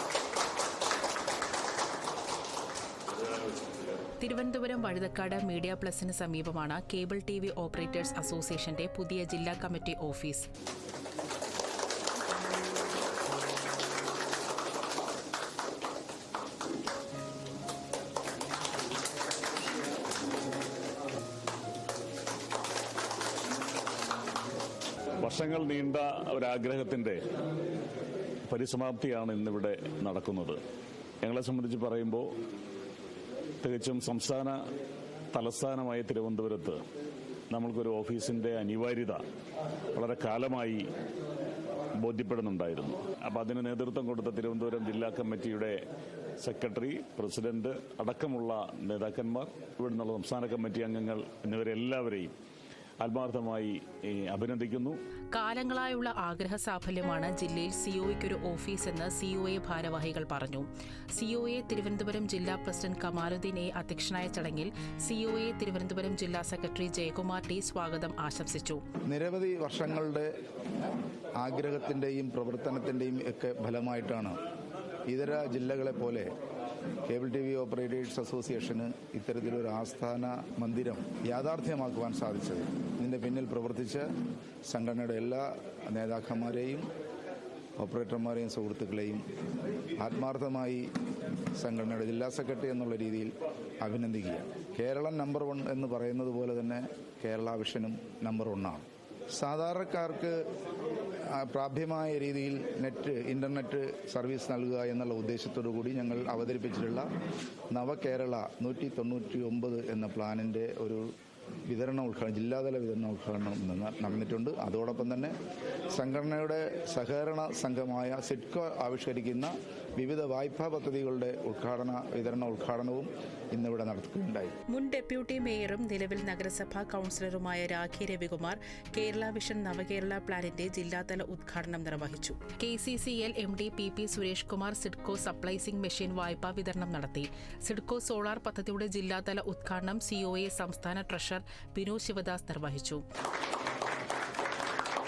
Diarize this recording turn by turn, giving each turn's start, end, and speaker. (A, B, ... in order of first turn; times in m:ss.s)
0:03.2-0:03.8 A
0:04.2-0:10.5 B
0:25.2-0:27.2 A
0:28.5-0:30.6 A
0:31.2-0:32.3 A
0:33.6-0:34.6 A
0:35.3-0:36.8 A
0:37.5-0:39.2 A
0:39.9-0:40.8 A
0:42.0-0:45.8 A
0:46.4-0:52.3 A
0:53.0-0:55.0 A
0:55.3-1:08.8 B
1:09.1-1:10.3 C
1:11.4-1:14.4 C
1:15.1-1:16.3 C
1:17.1-1:24.1 C
1:24.7-1:26.9 C
1:27.8-1:29.2 C
1:30.0-1:30.9 C
1:31.6-1:40.4 C
1:41.3-1:47.1 C
1:47.7-1:51.0 C
1:51.7-1:55.3 C
1:55.9-2:04.6 C
2:04.7-2:23.0 B